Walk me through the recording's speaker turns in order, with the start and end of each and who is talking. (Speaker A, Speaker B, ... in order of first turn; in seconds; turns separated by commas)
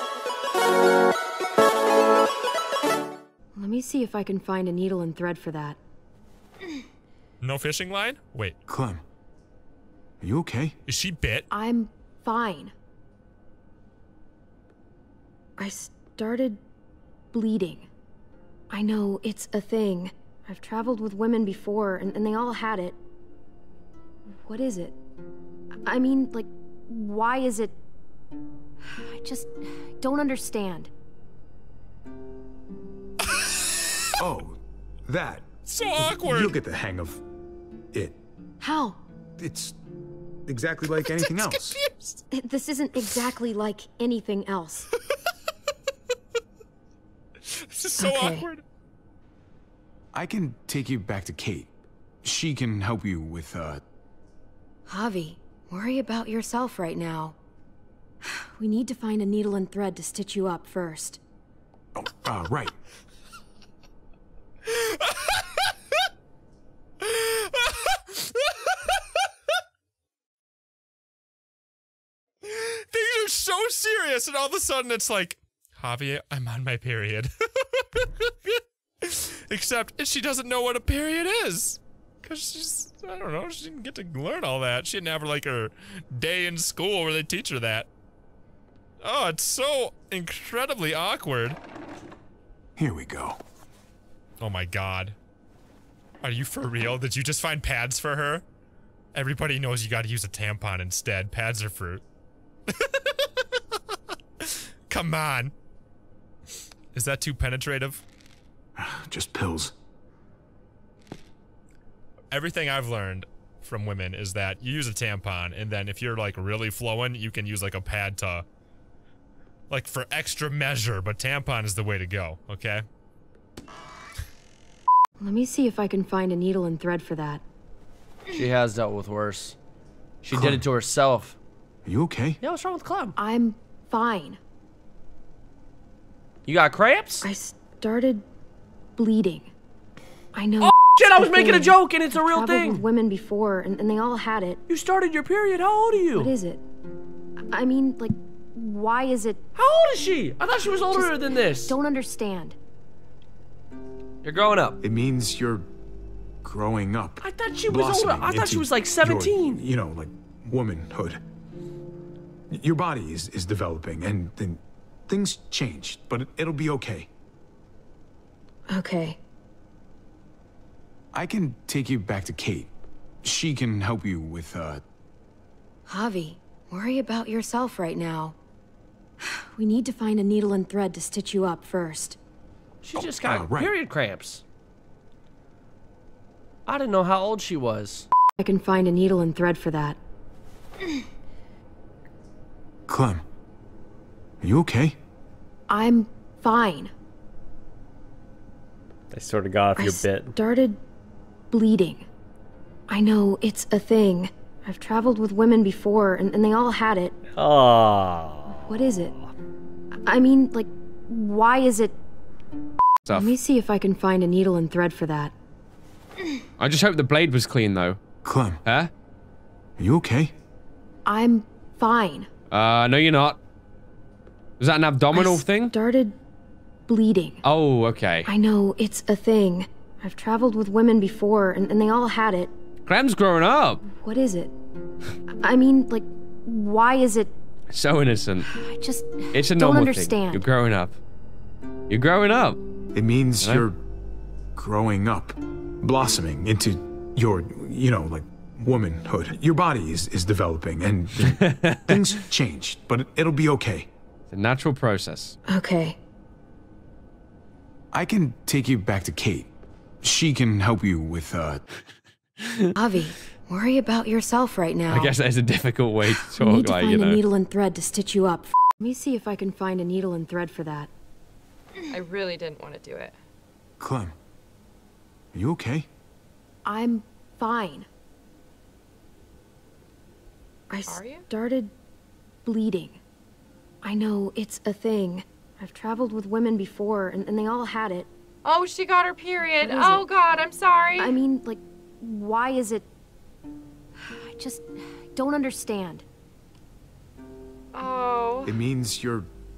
Speaker A: 3.5-5.8, Speaker B: 7.4-8.6, Speaker C: 8.7-9.0, Speaker C: 10.2-10.7, Speaker B: 10.8-11.5, Speaker A: 11.5-12.7, Speaker A: 15.6-16.6, Speaker A: 17.3-17.9, Speaker A: 18.7-23.0, Speaker A: 24.4-24.9, Speaker A: 25.8-27.8, Speaker A: 28.8-30.9, Speaker B: 33.3-33.9, Speaker C: 34.2-37.2, Speaker B: 35.6-36.5, Speaker A: 38.6-39.0, Speaker C: 39.4-39.8, Speaker C: 40.5-41.8, Speaker A: 42.3-44.9, Speaker B: 47.5-48.6, Speaker A: 48.0-48.5, Speaker C: 50.1-51.7, Speaker C: 52.2-53.8, Speaker A: 54.9-57.4, Speaker A: 58.6-61.2, Speaker C: 62.0-62.8, Speaker B: 64.6-65.7, Speaker B: 67.0-68.8, Speaker B: 72.4-87.9, Speaker B: 89.0-91.6, Speaker C: 92.8-93.4, Speaker B: 94.4-95.2, Speaker B: 96.2-98.4, Speaker B: 99.1-102.0, Speaker B: 102.7-103.5, Speaker B: 104.4-105.5, Speaker B: 106.9-108.0, Speaker C: 108.8-109.7, Speaker B: 112.3-118.5, Speaker B: 119.7-122.9, Speaker A: 125.2-127.4, Speaker D: 128.3-129.6, Speaker D: 130.2-131.3, Speaker C: 130.3-130.7, Speaker C: 131.9-132.4, Speaker D: 132.4-133.1, Speaker A: 133.2-134.4, Speaker D: 136.4-137.2, Speaker A: 137.2-138.2, Speaker A: 138.9-139.5, Speaker A: 140.3-144.6, Speaker D: 140.6-142.8, Speaker D: 144.7-146.3, Speaker A: 146.1-146.6, Speaker A: 147.5-149.4, Speaker D: 149.6-151.8, Speaker A: 150.9-152.6, Speaker C: 154.8-155.6, Speaker C: 156.4-161.2, Speaker D: 157.2-159.6, Speaker C: 162.5-167.1, Speaker A: 168.7-169.2, Speaker C: 171.1-172.7, Speaker C: 173.2-174.8, Speaker A: 175.9-178.4, Speaker A: 179.5-182.2, Speaker D: 182.8-184.4, Speaker C: 182.9-183.7, Speaker D: 186.7-188.1, Speaker A: 188.4-190.0, Speaker C: 192.9-193.2, Speaker C: 194.4-194.9, Speaker A: 195.7-196.9, Speaker E: 199.1-200.3, Speaker A: 199.8-200.8, Speaker A: 201.5-202.0, Speaker A: 202.9-207.1, Speaker E: 207.3-208.5, Speaker A: 208.5-209.1, Speaker A: 210.0-211.9, Speaker F: 213.1-213.3, Speaker A: 213.1-215.3, Speaker F: 216.6-218.0, Speaker C: 218.2-218.6, Speaker F: 218.6-218.9, Speaker C: 219.8-220.3, Speaker A: 221.1-222.3, Speaker F: 222.5-223.4, Speaker F: 224.6-225.7, Speaker A: 225.1-226.1, Speaker A: 226.9-227.4, Speaker F: 227.4-228.3, Speaker A: 228.2-232.5, Speaker F: 232.8-233.8, Speaker A: 233.8-234.5, Speaker A: 235.4-237.3, Speaker F: 237.7-238.4, Speaker A: 238.6-240.4, Speaker F: 239.3-240.9, Speaker F: 241.9-242.6, Speaker C: 242.9-243.8, Speaker C: 244.6-253.9, Speaker F: 251.5-251.9, Speaker F: 254.3-255.3, Speaker A: 255.5-256.0, Speaker C: 257.9-259.5, Speaker C: 260.0-261.6, Speaker A: 262.7-265.1, Speaker F: 264.9-267.2, Speaker A: 266.4-270.9, Speaker G: 271.9-273.1, Speaker C: 273.8-274.1, Speaker C: 275.3-275.9, Speaker A: 276.6-277.9, Speaker A: 280.7-281.7, Speaker G: 280.9-281.2, Speaker A: 282.4-283.0, Speaker A: 283.8-288.1, Speaker G: 288.4-291.1, Speaker A: 289.6-290.1, Speaker A: 291.0-292.9, Speaker A: 294.0-296.0, Speaker G: 297.7-298.5, Speaker C: 298.4-299.3